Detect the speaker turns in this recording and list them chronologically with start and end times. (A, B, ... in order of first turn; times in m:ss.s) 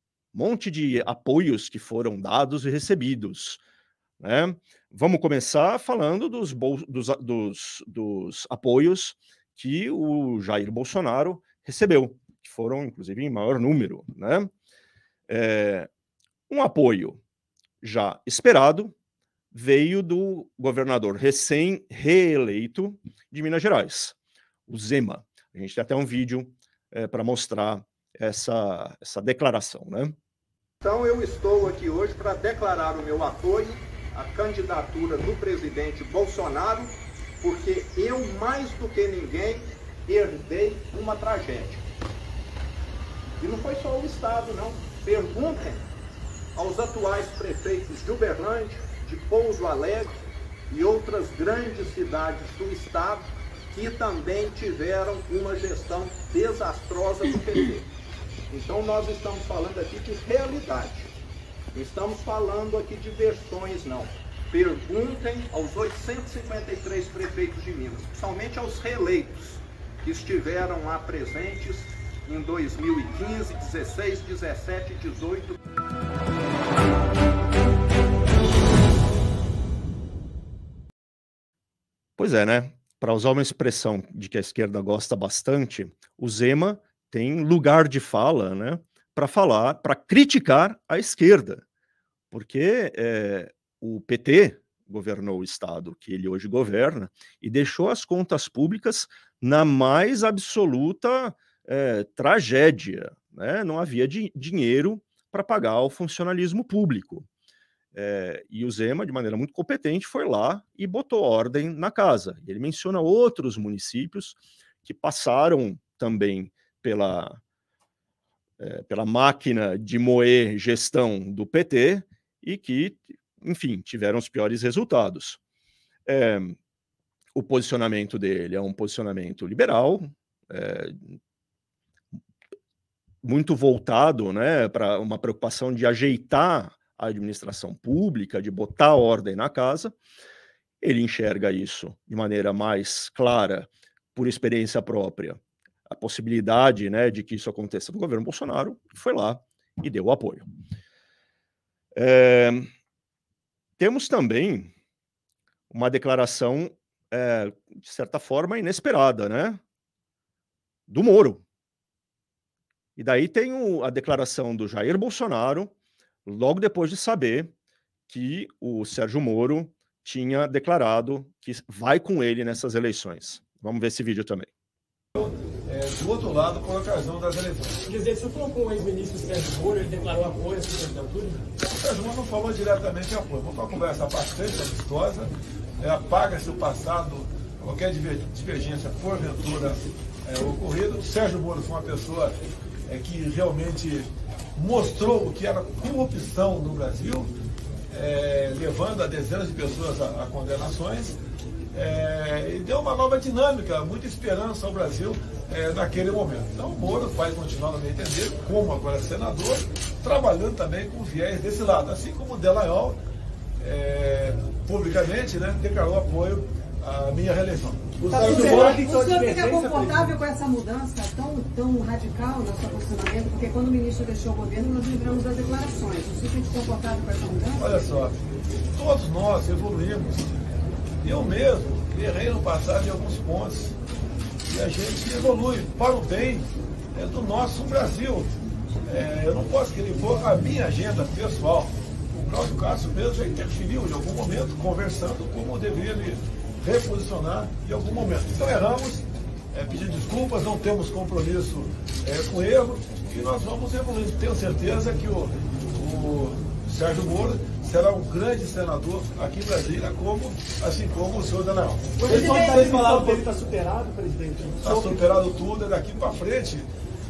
0:00.3-0:03.6 A
0:04.2-0:14.5 A
0:15.3-0:15.9 A
0:16.5-0:17.2 A
0:17.8-0:18.9 A
0:19.5-0:24.2 A
0:24.7-0:30.1 A
0:30.8-0:41.8 B
0:43.4-0:45.8 B
0:46.5-0:50.2 B
0:50.7-0:57.9 B
0:58.5-1:01.1 B
1:01.7-1:15.6 B
1:22.2-1:31.6 A
1:32.3-1:47.2 A
1:47.9-1:57.4 A
1:58.6-2:05.4 A
2:06.0-2:06.6 A
2:07.3-2:11.2 A
2:13.2-2:20.0 A
2:20.8-2:30.5 A
2:31.9-2:32.7 A
2:33.8-2:34.7 A
2:35.7-2:39.6 A
2:40.9-2:41.4 A
2:43.0-2:45.7 A
2:46.2-2:47.5 A
2:48.1-2:54.5 A
2:55.2-2:57.8 C
2:57.9-3:01.5 D
3:01.6-3:12.3 C
3:12.9-3:17.3 C
3:17.9-3:21.1 C
3:21.7-3:33.0 C
3:33.6-3:38.6 C
3:38.1-3:40.2 D
3:38.1-3:47.7 E
3:47.6-3:48.2 C
3:48.7-3:50.3 C
3:51.0-3:53.7 C
3:54.4-3:58.3 C
3:58.8-4:21.8 C
4:22.0-4:25.0 D
4:22.1-4:22.8 E
4:24.6-4:26.7 C